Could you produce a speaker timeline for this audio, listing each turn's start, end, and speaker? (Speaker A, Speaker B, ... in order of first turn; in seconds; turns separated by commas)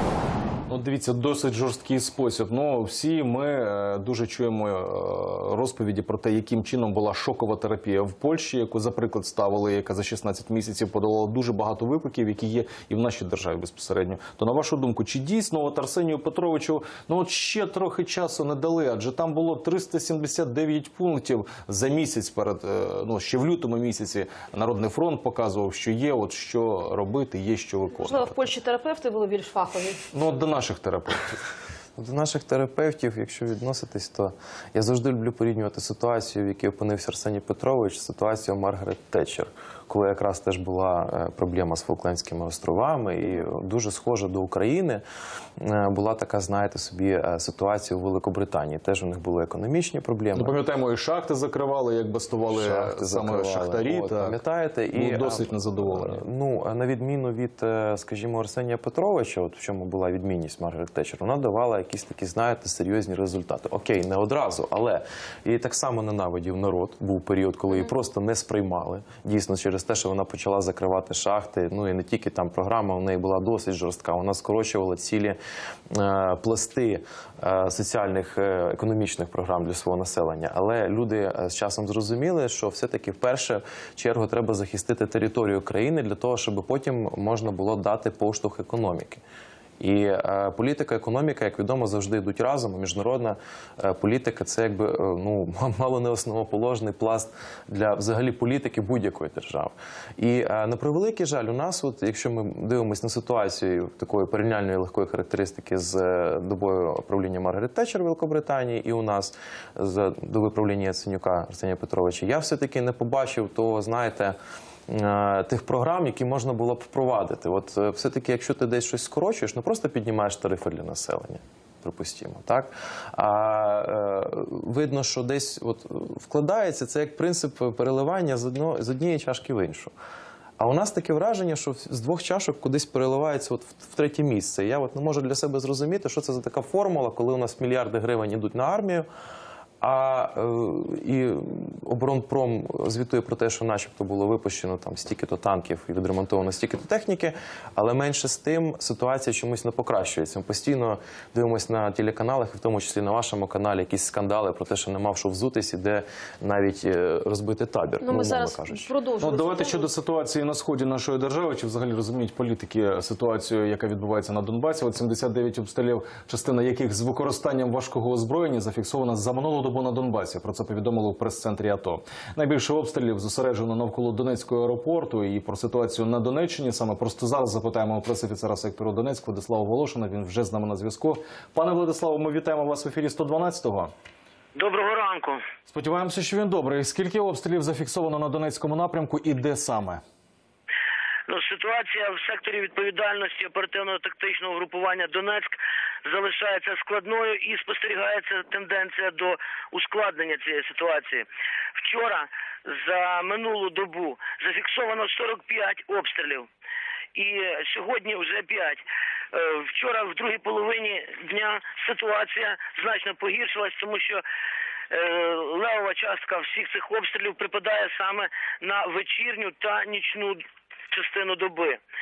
Speaker A: 0.7-28.3, Speaker B: 28.0-30.0, Speaker A: 30.1-31.4, Speaker C: 31.9-45.0, Speaker C: 45.6-50.5, Speaker A: 50.3-54.4, Speaker C: 52.5-75.4, Speaker A: 54.9-56.2, Speaker C: 75.9-89.2, Speaker C: 89.8-114.4, Speaker C: 114.9-129.9, Speaker C: 130.6-139.1, Speaker C: 139.8-158.9, Speaker B: 158.0-159.9, Speaker A: 159.2-183.9, Speaker D: 184.5-185.4, Speaker A: 185.7-190.0, Speaker D: 191.3-201.2, Speaker D: 201.8-206.5, Speaker D: 207.1-214.2, Speaker D: 214.9-221.8